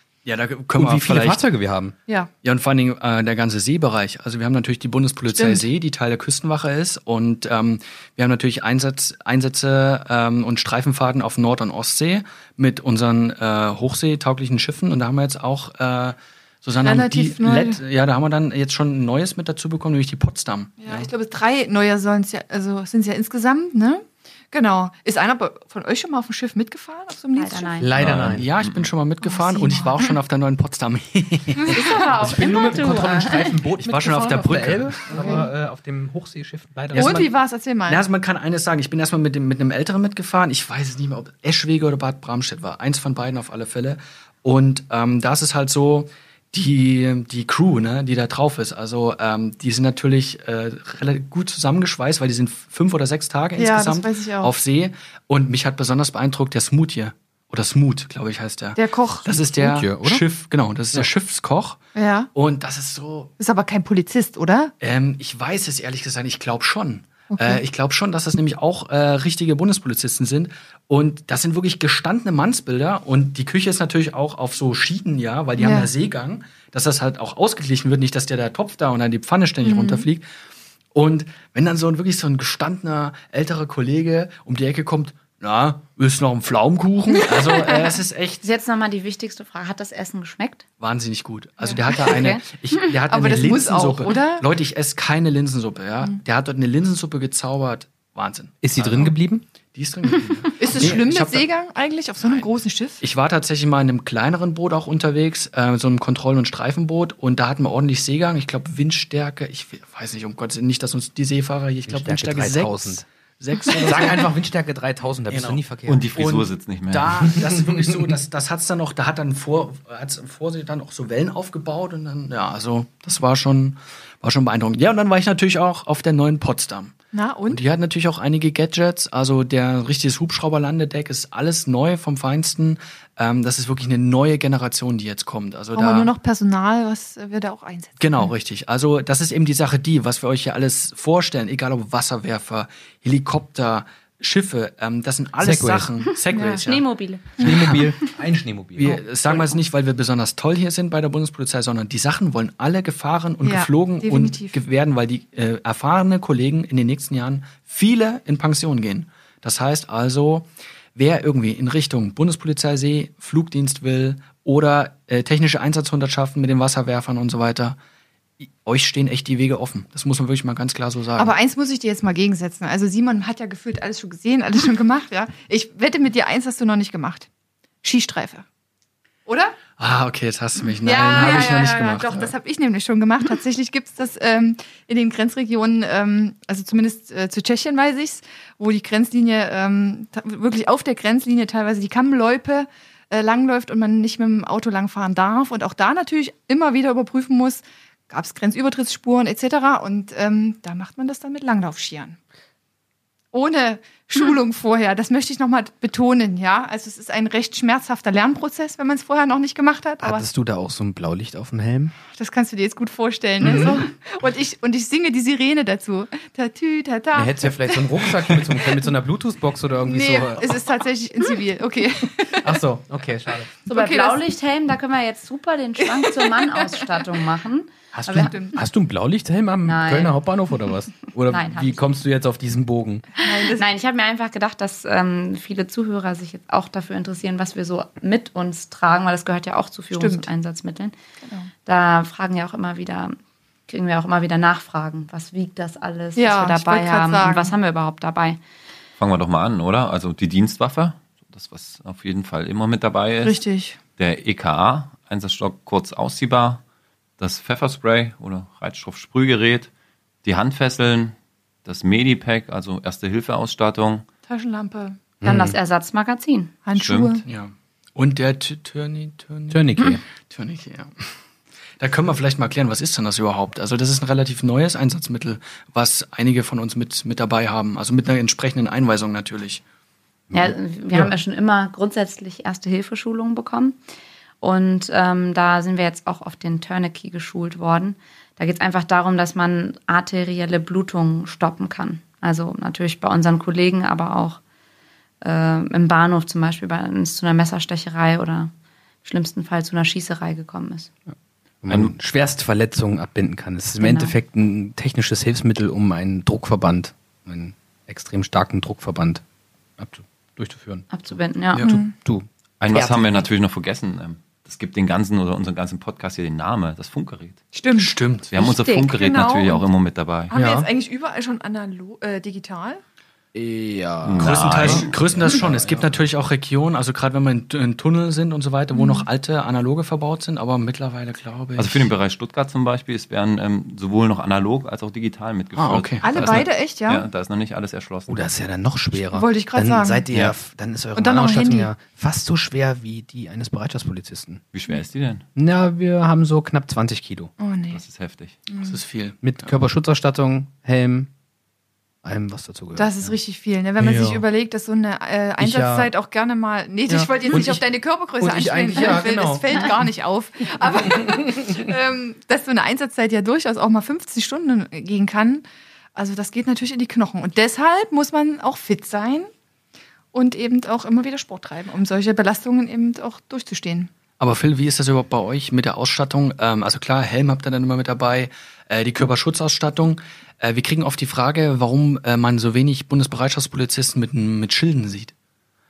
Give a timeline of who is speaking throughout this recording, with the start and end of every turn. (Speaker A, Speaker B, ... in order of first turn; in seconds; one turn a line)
Speaker A: 0.2-1.4
Speaker B: 0.7-1.9
Speaker C: 2.1-2.3
Speaker A: 2.4-21.1
Speaker C: 5.3-5.6
Speaker C: 16.8-17.8
Speaker C: 20.8-27.9
Speaker D: 27.4-27.9
Speaker B: 27.8-28.5
Speaker E: 27.9-28.9
Speaker A: 28.1-32.0
Speaker C: 29.2-30.1
Speaker C: 31.6-32.8
Speaker D: 31.7-33.6
Speaker B: 32.1-37.3
Speaker A: 33.8-35.3
Speaker C: 35.1-35.5
Speaker A: 36.9-37.3
Speaker C: 36.9-38.0
Speaker A: 37.9-61.8
Speaker C: 53.6-54.5
Speaker C: 58.8-59.3
Speaker B: 59.5-60.2
Speaker C: 61.9-62.3
Speaker A: 62.3-63.3
Speaker C: 63.4-64.7
Speaker A: 64.8-80.2
Speaker C: 67.3-67.6
Speaker C: 75.6-75.9
Speaker C: 79.6-80.1
Speaker A: 80.9-88.4
Speaker C: 87.3-87.8
Speaker D: 88.4-90.6
Speaker A: 90.8-99.1
Speaker C: 91.6-92.1
Speaker D: 92.0-92.4
Speaker C: 93.1-94.5
Speaker B: 98.6-99.4
Speaker A: 99.7-101.5
Speaker C: 100.6-103.0
Speaker A: 103.0-114.3
Speaker B: 111.9-113.0
Speaker B: 113.8-116.1
Speaker A: 115.3-115.6
Speaker E: 115.9-117.4
Speaker A: 116.1-127.0
Speaker C: 127.1-127.6
Speaker A: 127.5-136.1
Speaker C: 135.7-138.3
Speaker A: 138.0-146.8
Speaker B: 145.4-145.9
Speaker C: 146.3-146.7
Speaker D: 146.5-147.8
Speaker B: 147.4-149.0
Speaker A: 147.4-147.8
Speaker A: 148.8-167.8
Speaker C: 153.4-154.6
Speaker A: 168.4-171.3
Speaker C: 171.2-177.3
Speaker C: 177.8-178.4
Speaker C: 179.2-179.6
Speaker A: 179.8-182.3
Speaker C: 180.8-202.2
Speaker C: 203.3-210.2
Speaker B: 210.0-211.9
Speaker C: 212.1-217.8
Speaker B: 213.4-213.8
Speaker B: 217.1-220.5
Speaker C: 219.8-222.6
Speaker B: 222.4-223.5
Speaker D: 223.7-228.3
Speaker C: 223.7-224.2
Speaker C: 225.8-226.4
Speaker B: 227.9-233.0
Speaker C: 228.2-228.6
Speaker D: 229.6-230.2
Speaker D: 231.2-231.8
Speaker C: 233.2-233.7
Speaker D: 233.5-240.9
Speaker C: 239.9-240.3
Speaker C: 241.2-241.5
Speaker D: 241.7-243.2
Speaker D: 243.7-248.4
Speaker C: 246.2-247.5
Speaker E: 249.0-253.4
Speaker C: 253.2-253.8
Speaker E: 254.0-256.6
Speaker E: 257.2-259.7
Speaker E: 260.2-261.1
Speaker E: 261.6-264.0
Speaker C: 264.3-265.0
Speaker B: 265.2-265.6
Speaker D: 265.2-266.5
Speaker C: 266.6-267.2
Speaker E: 266.7-267.2
Speaker A: 267.2-271.0
Speaker B: 269.5-270.0
Speaker A: 271.8-279.6
Speaker B: 280.3-281.1
Speaker D: 280.3-283.8
Speaker D: 284.4-294.4
Speaker D: 295.2-298.5
Speaker D: 299.0-300.9
Speaker B: 301.6-309.2
Speaker D: 303.8-304.1
Speaker B: 309.8-313.2
Speaker D: 310.9-311.7
Speaker C: 311.6-311.9
Speaker E: 312.6-317.4
Speaker C: 317.5-319.7
Speaker A: 317.7-318.3
Speaker E: 318.3-320.3
Speaker C: 320.3-322.8
Speaker B: 320.3-320.7
Speaker B: 323.3-326.0
Speaker E: 324.0-324.9
Speaker A: 324.2-331.9
Speaker C: 328.7-329.1
Speaker E: 331.6-338.3
Speaker A: 335.6-336.3
Speaker C: 336.0-337.1
Speaker B: 338.1-344.4
Speaker C: 339.1-340.0
Speaker C: 340.9-341.7
Speaker E: 344.5-345.2
Speaker B: 345.4-347.3
Speaker C: 347.4-347.8
Speaker E: 347.7-348.4
Speaker C: 348.5-348.8
Speaker A: 348.6-349.5
Speaker B: 349.2-351.1
Speaker B: 352.0-352.9
Speaker C: 352.7-365.4
Speaker B: 353.8-354.2
Speaker B: 355.4-355.9
Speaker B: 356.9-357.6
Speaker B: 358.2-359.7
Speaker B: 361.0-361.4
Speaker C: 365.9-369.3
Speaker C: 370.1-373.9
Speaker A: 374.2-385.1